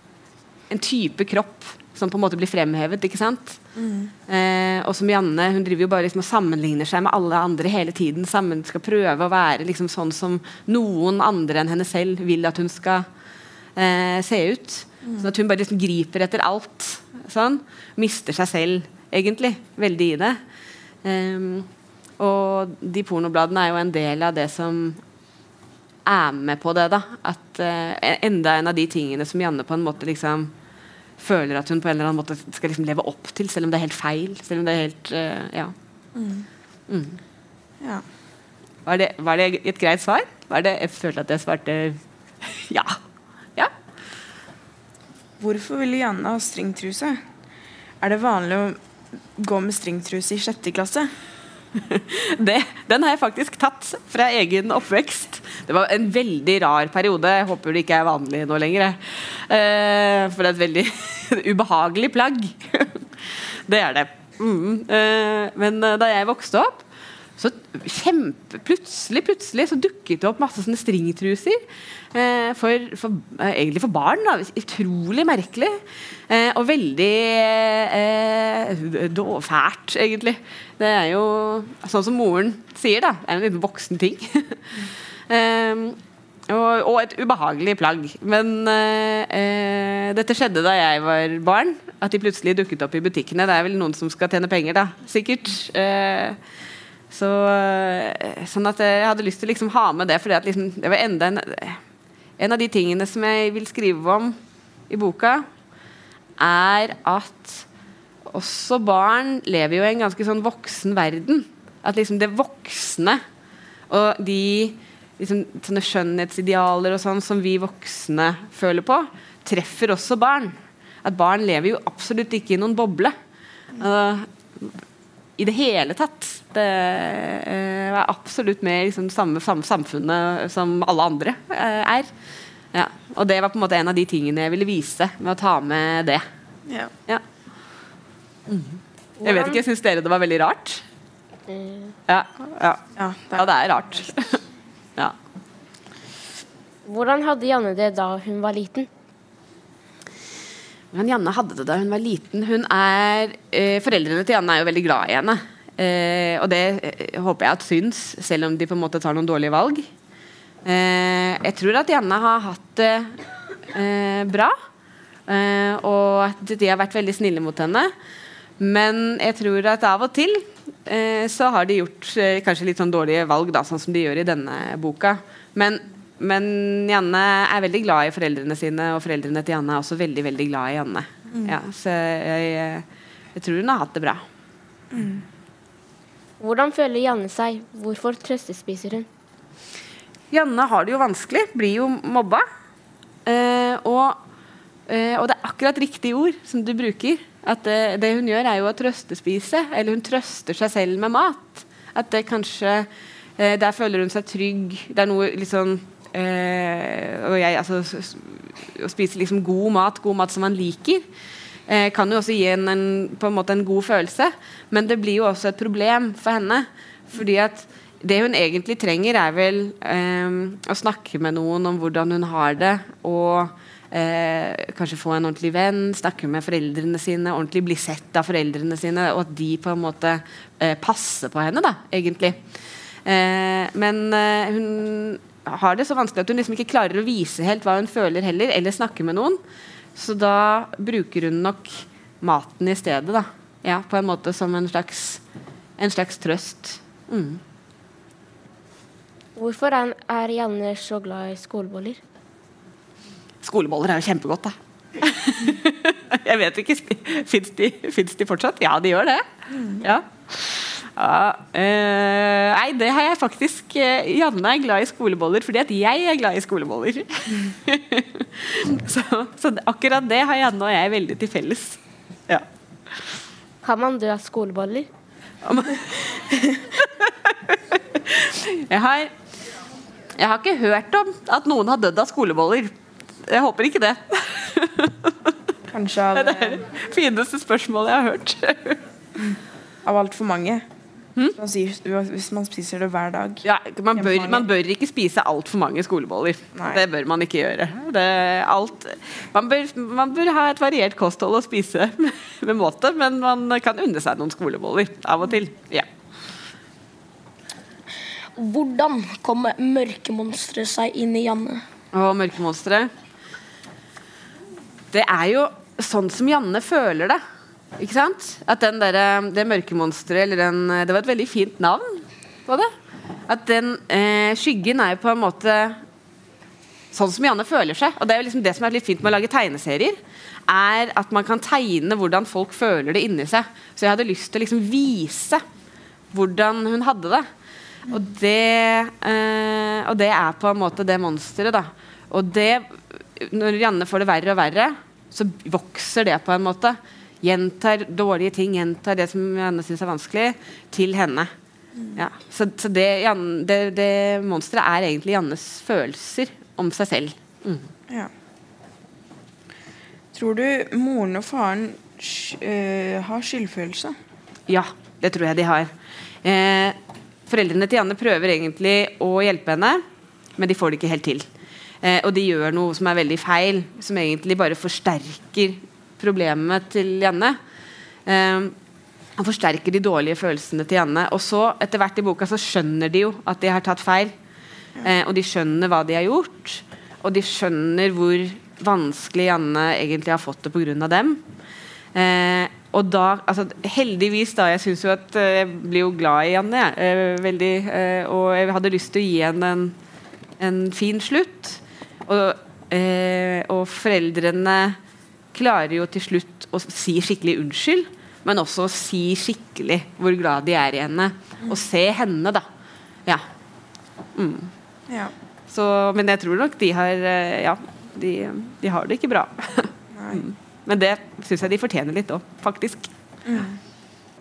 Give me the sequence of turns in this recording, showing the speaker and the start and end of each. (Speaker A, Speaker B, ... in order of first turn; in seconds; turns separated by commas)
Speaker A: 0.7-3.6, Speaker B: 3.8-4.1, Speaker A: 4.3-13.1, Speaker A: 13.8-20.4, Speaker A: 21.0-21.7, Speaker A: 22.2-25.0, Speaker A: 26.1-30.5, Speaker A: 31.2-35.7, Speaker B: 36.1-36.5, Speaker A: 36.9-37.2, Speaker A: 38.9-43.0, Speaker B: 45.4-47.2, Speaker B: 48.0-48.8, Speaker B: 49.4-51.1, Speaker A: 51.8-66.8, Speaker A: 67.4-71.6, Speaker A: 72.1-75.8, Speaker A: 76.3-86.0, Speaker A: 86.5-96.4, Speaker A: 97.1-101.8, Speaker A: 102.4-104.4, Speaker A: 104.9-105.5, Speaker A: 106.4-107.7, Speaker A: 108.3-113.2, Speaker A: 113.9-123.2, Speaker A: 123.8-124.8, Speaker A: 125.4-132.1, Speaker A: 132.7-136.2, Speaker B: 136.7-136.9, Speaker A: 138.5-140.8, Speaker C: 139.2-139.6, Speaker C: 141.5-142.0, Speaker A: 142.1-142.8, Speaker B: 143.0-143.6, Speaker A: 143.3-144.4, Speaker C: 146.9-148.9, Speaker A: 150.9-159.9, Speaker A: 160.7-163.2, Speaker A: 163.7-164.6, Speaker A: 165.3-167.9, Speaker A: 168.6-184.2, Speaker B: 184.9-185.2, Speaker C: 186.4-189.1, Speaker A: 190.3-192.4, Speaker A: 193.2-194.2, Speaker A: 194.9-211.0, Speaker A: 211.7-232.4, Speaker A: 233.1-239.4, Speaker A: 240.0-245.2, Speaker A: 245.8-247.4, Speaker C: 249.4-252.0, Speaker A: 253.4-259.3, Speaker B: 259.5-259.8, Speaker A: 259.8-272.4, Speaker C: 273.6-274.9, Speaker A: 275.4-279.1, Speaker A: 280.2-282.7, Speaker A: 283.3-285.3, Speaker B: 285.7-286.6, Speaker A: 286.1-288.8, Speaker B: 289.8-290.6, Speaker B: 291.4-293.4, Speaker A: 293.4-305.9, Speaker B: 294.0-294.5, Speaker B: 296.6-296.8, Speaker D: 308.4-311.6, Speaker A: 311.9-312.9, Speaker A: 314.9-317.2, Speaker A: 317.8-322.7, Speaker A: 323.3-325.8, Speaker A: 326.9-330.0, Speaker A: 330.5-335.4, Speaker A: 336.1-337.3, Speaker A: 337.9-351.3, Speaker A: 352.0-357.7, Speaker B: 360.1-363.9, Speaker A: 364.5-365.7, Speaker A: 366.2-366.8, Speaker A: 367.3-369.8, Speaker A: 370.4-371.3, Speaker A: 371.8-377.4, Speaker A: 378.1-378.6, Speaker A: 379.2-384.1, Speaker A: 384.8-391.2, Speaker A: 391.9-399.8, Speaker A: 400.4-404.8, Speaker A: 405.3-412.4, Speaker A: 414.1-414.5, Speaker B: 414.9-415.1, Speaker A: 415.5-422.9, Speaker B: 419.9-420.2, Speaker B: 423.2-423.6